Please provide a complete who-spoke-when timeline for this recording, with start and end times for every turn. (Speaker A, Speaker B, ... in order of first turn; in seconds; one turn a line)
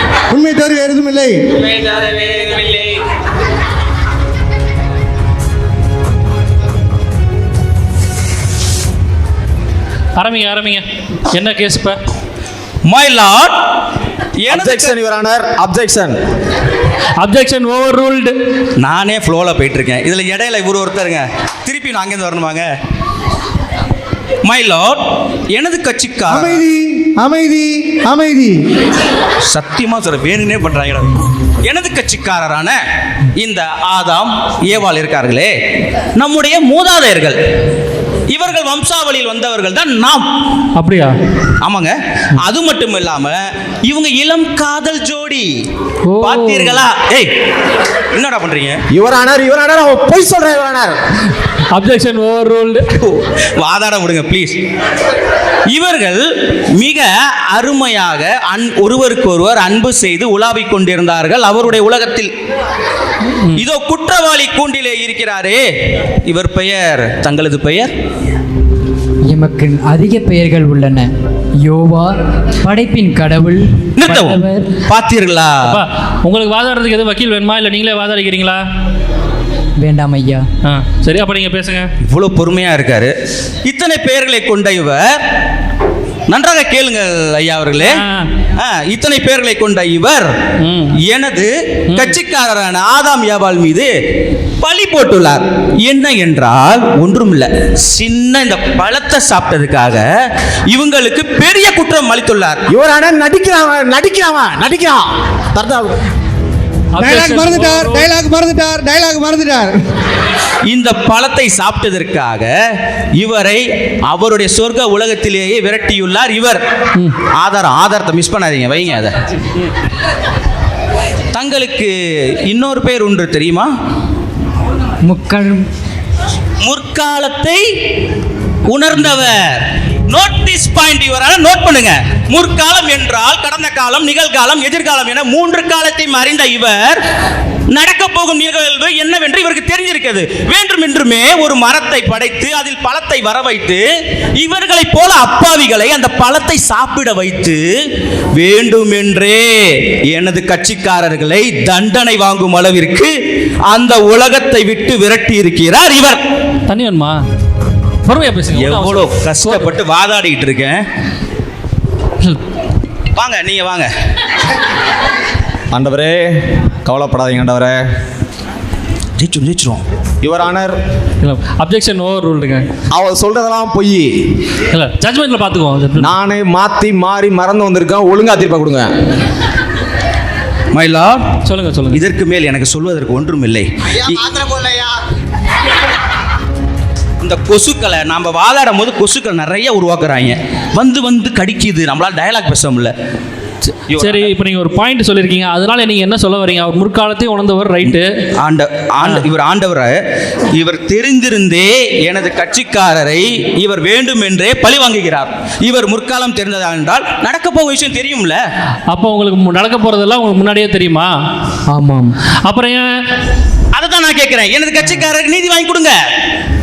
Speaker A: 0.3-1.4
Speaker B: 10.2-12.0
Speaker C: 12.9-13.5
Speaker C: 14.4-15.0
Speaker D: 14.5-16.2
Speaker B: 17.2-18.4
Speaker C: 18.8-22.7
Speaker C: 24.4-25.0
Speaker C: 25.5-26.6
Speaker A: 26.3-28.5
Speaker C: 29.5-32.8
Speaker C: 33.4-35.5
Speaker C: 36.2-37.4
Speaker C: 38.3-40.3
Speaker B: 40.8-41.1
Speaker C: 41.6-45.5
Speaker B: 46.1-46.9
Speaker C: 46.2-47.3
Speaker C: 48.1-48.8
Speaker D: 48.9-51.0
Speaker B: 51.7-52.8
Speaker C: 53.1-54.6
Speaker C: 55.7-56.2
Speaker C: 56.8-62.3
Speaker C: 63.6-65.6
Speaker C: 66.3-67.9
Speaker E: 69.3-71.1
Speaker E: 71.6-74.7
Speaker C: 74.0-75.8
Speaker B: 75.7-78.6
Speaker E: 79.8-80.4
Speaker B: 80.6-81.9
Speaker C: 82.1-83.1
Speaker C: 83.7-85.0
Speaker C: 86.3-88.0
Speaker B: 87.8-88.3
Speaker C: 88.6-90.3
Speaker B: 90.6-90.9
Speaker C: 91.1-93.9
Speaker C: 94.6-100.0
Speaker C: 100.7-102.6
Speaker D: 102.7-106.0
Speaker B: 106.9-108.1
Speaker A: 107.0-109.8
Speaker C: 110.7-112.5
Speaker C: 113.2-116.6
Speaker C: 117.4-119.2
Speaker C: 121.3-121.9
Speaker C: 122.5-123.7
Speaker E: 125.0-125.6
Speaker C: 126.6-127.6
Speaker C: 128.7-137.0
Speaker C: 137.7-143.8
Speaker C: 144.4-147.6
Speaker C: 148.4-149.5
Speaker C: 150.1-153.1
Speaker C: 153.7-156.2
Speaker B: 156.7-157.2
Speaker B: 158.1-159.7
Speaker C: 158.6-160.8
Speaker C: 163.2-163.9
Speaker D: 165.7-166.3
Speaker D: 166.8-167.8
Speaker C: 169.2-169.8
Speaker D: 170.2-170.8
Speaker B: 171.2-172.7
Speaker D: 172.9-174.1
Speaker B: 174.7-176.1
Speaker D: 176.0-178.9
Speaker C: 180.7-181.2
Speaker B: 181.5-182.0
Speaker C: 181.9-184.7
Speaker C: 187.2-192.9
Speaker C: 193.9-194.3
Speaker B: 193.9-198.1
Speaker C: 197.8-199.9
Speaker C: 200.6-208.4
Speaker B: 208.9-211.1
Speaker E: 211.7-212.1
Speaker B: 212.5-212.8
Speaker C: 213.7-215.9
Speaker E: 214.8-215.1